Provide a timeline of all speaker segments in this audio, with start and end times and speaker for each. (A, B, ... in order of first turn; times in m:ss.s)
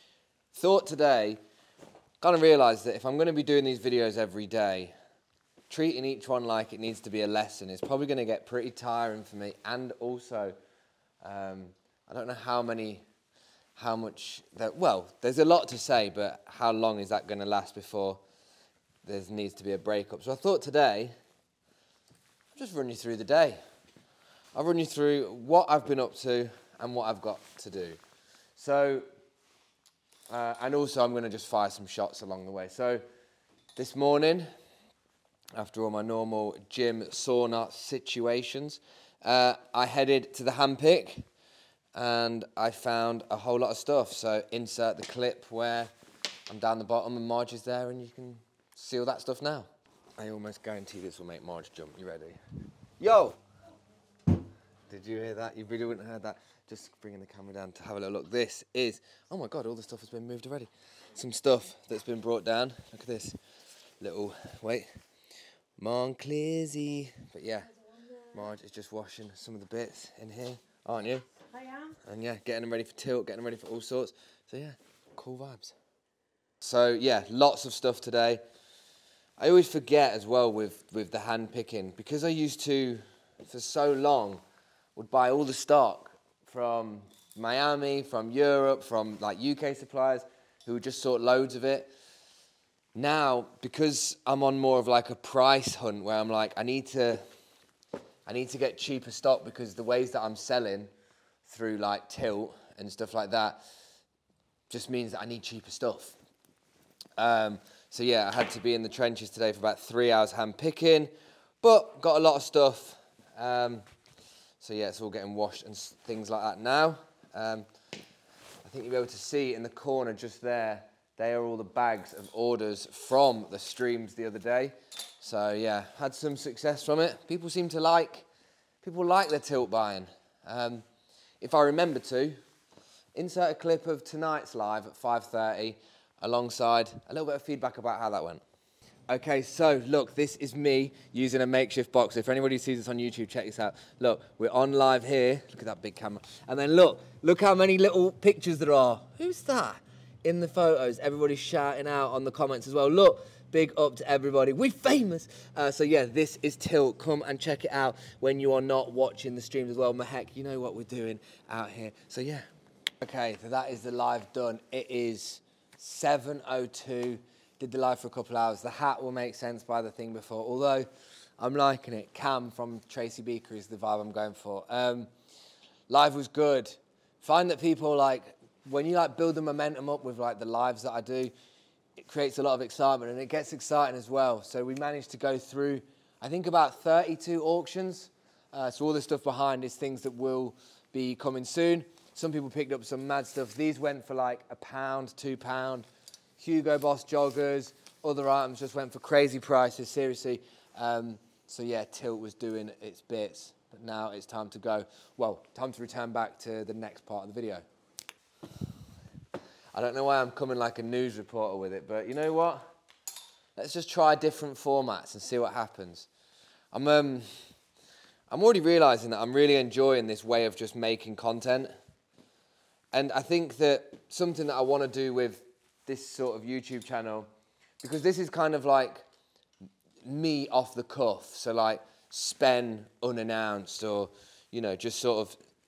0:00.5-0:01.4 A
0:02.2-0:04.9 A
0:05.7-0:10.6 A
0:11.2-0:13.0 A
0:13.8-0:18.2 A
0:19.0-0:21.1 A
0:22.5-0:23.6 A
0:24.6-0:28.0 A
0:28.6-0:29.0 A
0:30.3-0:33.0 A
0:33.8-0:34.5 A
0:35.6-0:41.2 A
0:41.9-0:45.9 A
0:46.5-0:52.4 A
0:53.0-0:53.4 A
0:54.9-1:03.4 A
1:04.0-1:04.9 A
1:05.8-1:11.3 A
1:11.9-1:15.7 A
1:16.6-1:18.4 A
1:19.4-1:24.4 A
1:25.0-1:31.9 A
1:32.9-1:37.2 A
1:38.3-1:40.9 A
1:41.4-1:43.6 A
1:44.7-1:46.2 A
1:47.2-1:53.8 A
1:54.6-1:57.6 A
1:58.6-2:08.2 A
2:08.8-2:10.8 A
2:11.4-2:12.4 A
2:13.1-2:18.4 A
2:19.1-2:42.4 A
2:43.0-2:50.9 A
2:51.4-2:55.1 A
2:55.9-3:01.3 A
3:02.0-3:15.8 A
3:16.4-3:27.6 A
3:29.7-3:32.6 A
3:33.6-3:36.1 A
3:36.7-3:37.3 A
3:38.3-3:41.7 A
3:42.9-3:47.3 A
3:47.8-3:49.0 A
3:50.0-3:55.4 A